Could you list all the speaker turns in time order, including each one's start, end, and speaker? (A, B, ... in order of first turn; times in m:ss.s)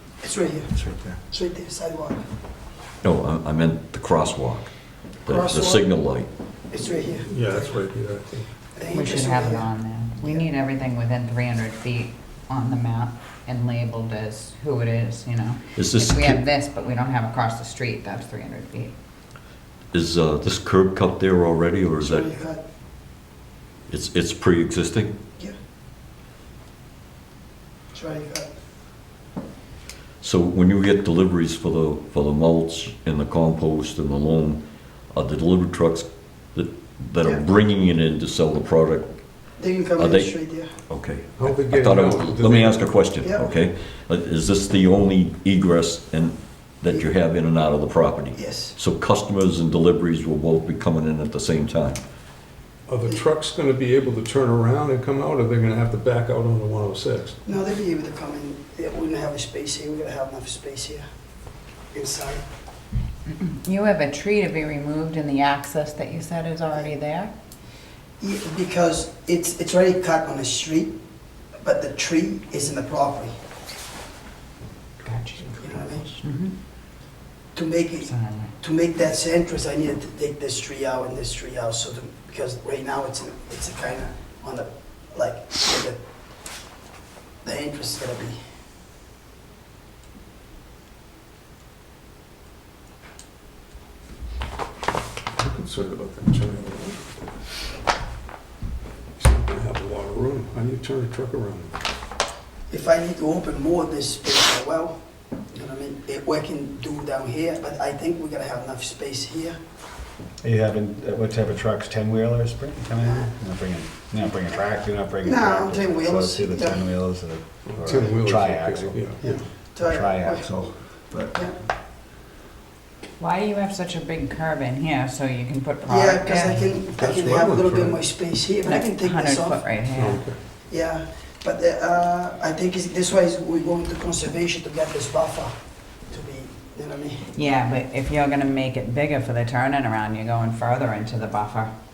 0:00.2-0:00.8 A
0:00.8-0:01.1 B
0:01.3-0:02.2 A
0:03.0-0:04.7 C
0:05.2-0:06.3 C
0:05.3-0:05.9 A
0:06.7-0:07.8 A
0:07.3-0:08.5 D
0:08.7-0:10.5 A
0:08.9-0:18.9 E
0:15.8-0:16.4 C
0:19.9-0:22.3 C
0:22.0-0:22.6 A
0:23.9-0:25.1 C
0:27.9-0:28.5 A
0:30.2-0:34.6 C
0:35.1-0:39.1 C
0:39.6-0:40.7 A
0:40.0-0:52.0 C
0:41.4-0:42.9 D
0:43.2-0:43.5 A
0:48.3-0:48.8 A
0:52.9-0:57.4 D
0:57.4-1:01.0 A
1:01.9-1:02.4 A
1:03.3-1:07.3 E
1:08.2-1:11.0 A
1:11.6-1:13.4 A
1:15.0-1:16.5 E
1:15.6-1:16.1 A
1:17.5-1:26.0 A
1:18.0-1:18.5 E
1:27.4-1:28.4 A
1:35.4-1:37.3 D
1:39.2-1:41.8 D
1:42.7-1:49.6 A
1:50.4-2:01.4 B
1:53.0-1:53.3 A
1:55.2-1:56.8 A
1:57.7-1:59.2 D
1:59.2-2:00.5 A
2:01.3-2:01.6 A
2:03.2-2:06.7 E
2:05.9-2:09.6 A
2:07.0-2:08.1 D
2:08.6-2:10.2 E
2:10.0-2:10.4 D
2:10.7-2:15.5 A
2:16.1-2:17.3 A
2:17.3-2:21.7 E